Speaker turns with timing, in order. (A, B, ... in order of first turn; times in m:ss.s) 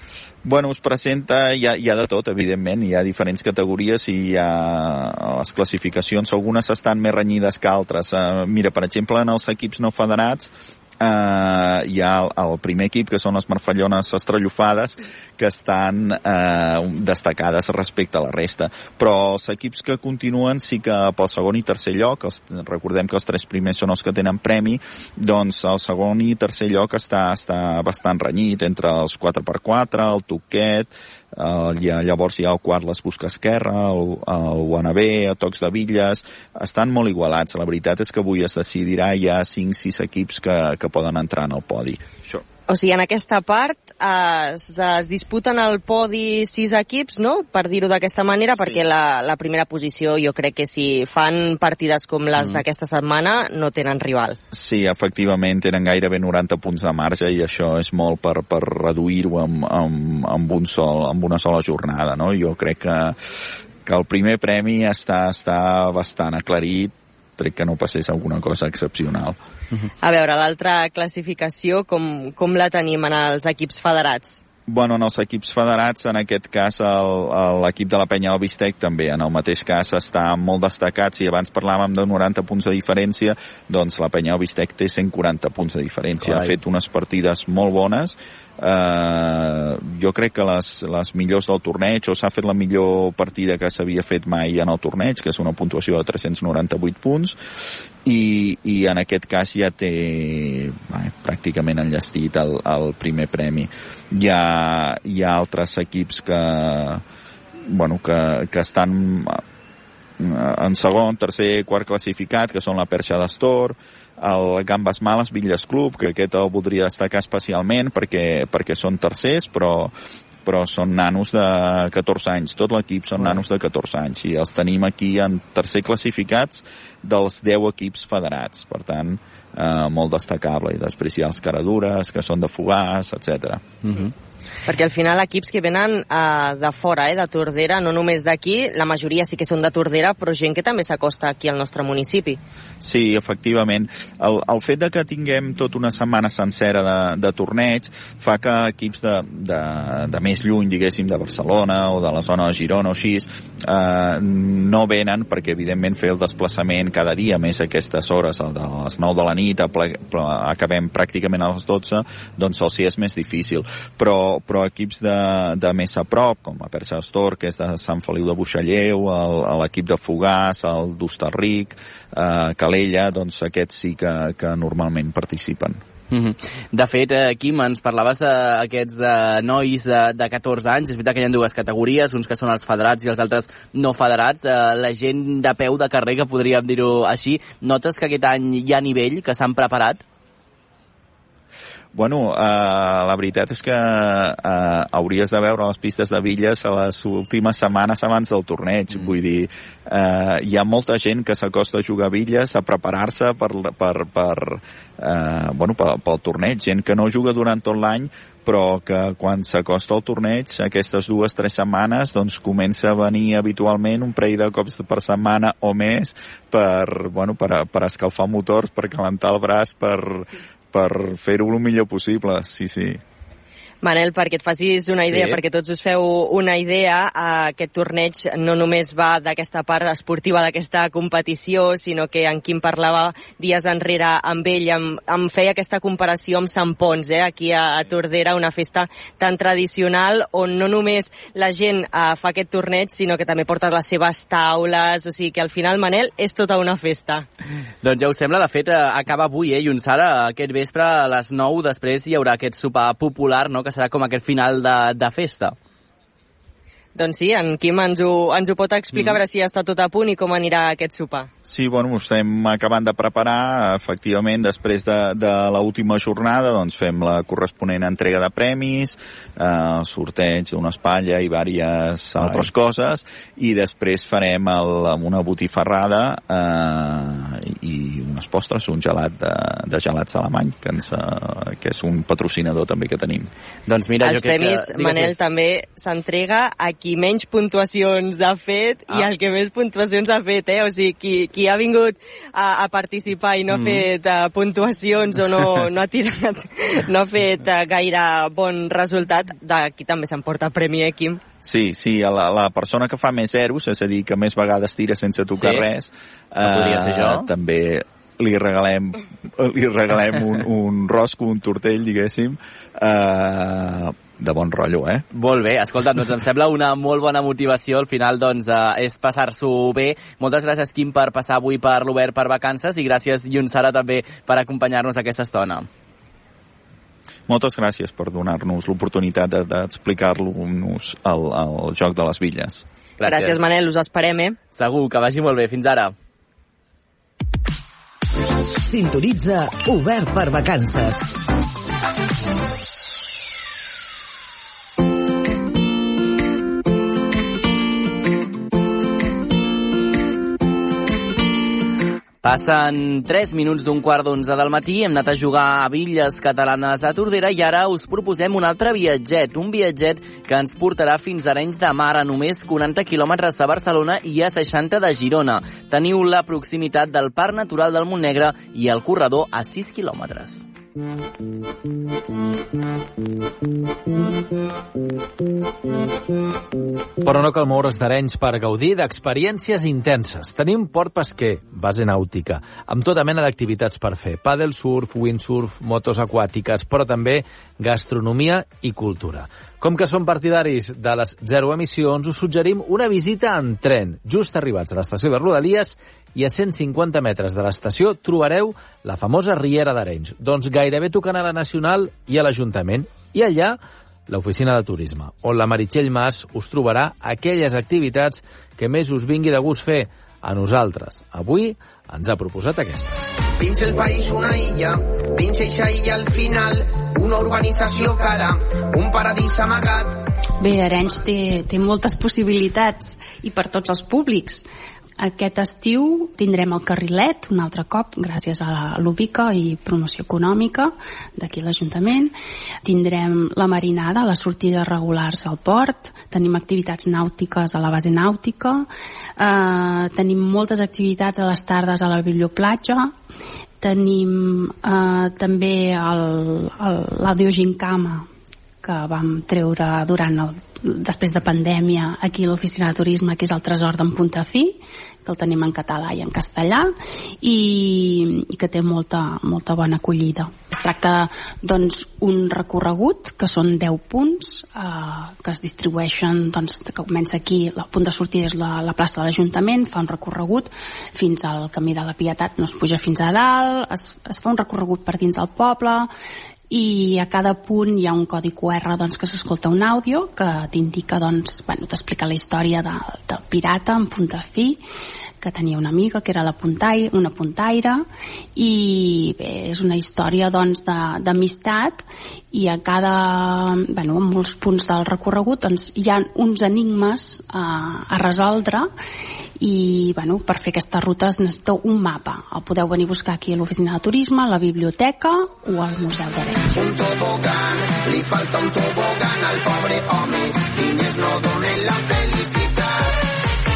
0:00.4-0:42.4 A
0:42.7-0:54.4 B
0:54.5-1:03.2 A
1:03.8-1:09.4 A
1:10.0-1:14.4 B
1:14.7-1:37.4 A
1:38.0-1:47.0 A
1:47.6-1:49.4 A
1:50.2-1:59.9 A
2:00.4-2:13.8 A
2:14.7-2:22.4 B
2:22.8-2:55.8 A
2:56.1-3:10.0 C
3:11.9-3:43.0 A
3:43.8-4:07.2 B
3:45.1-3:45.4 C
4:07.8-4:15.5 C
4:17.0-4:21.3 B
4:21.4-4:43.3 A
4:43.7-4:45.1 C
4:44.0-5:01.2 B
4:53.5-4:53.8 C
5:01.4-5:15.0 A
5:05.3-5:05.6 C
5:06.4-5:07.3 C
5:15.1-5:25.7 C
5:27.3-5:32.6 A
5:33.0-5:33.4 C
5:33.0-5:34.4 B
5:34.5-5:35.9 C
5:38.6-5:41.2 D
5:52.2-6:10.4 C
6:17.0-6:53.1 E
6:53.4-7:00.0 F
7:00.4-7:04.4 G
7:05.0-7:12.1 G
7:12.6-7:22.9 G
7:23.6-7:28.1 G
7:28.6-7:55.9 G
7:56.5-8:04.6 G
8:05.2-8:07.8 G
8:08.3-8:18.7 G
8:19.4-8:26.5 G
8:26.5-8:32.9 F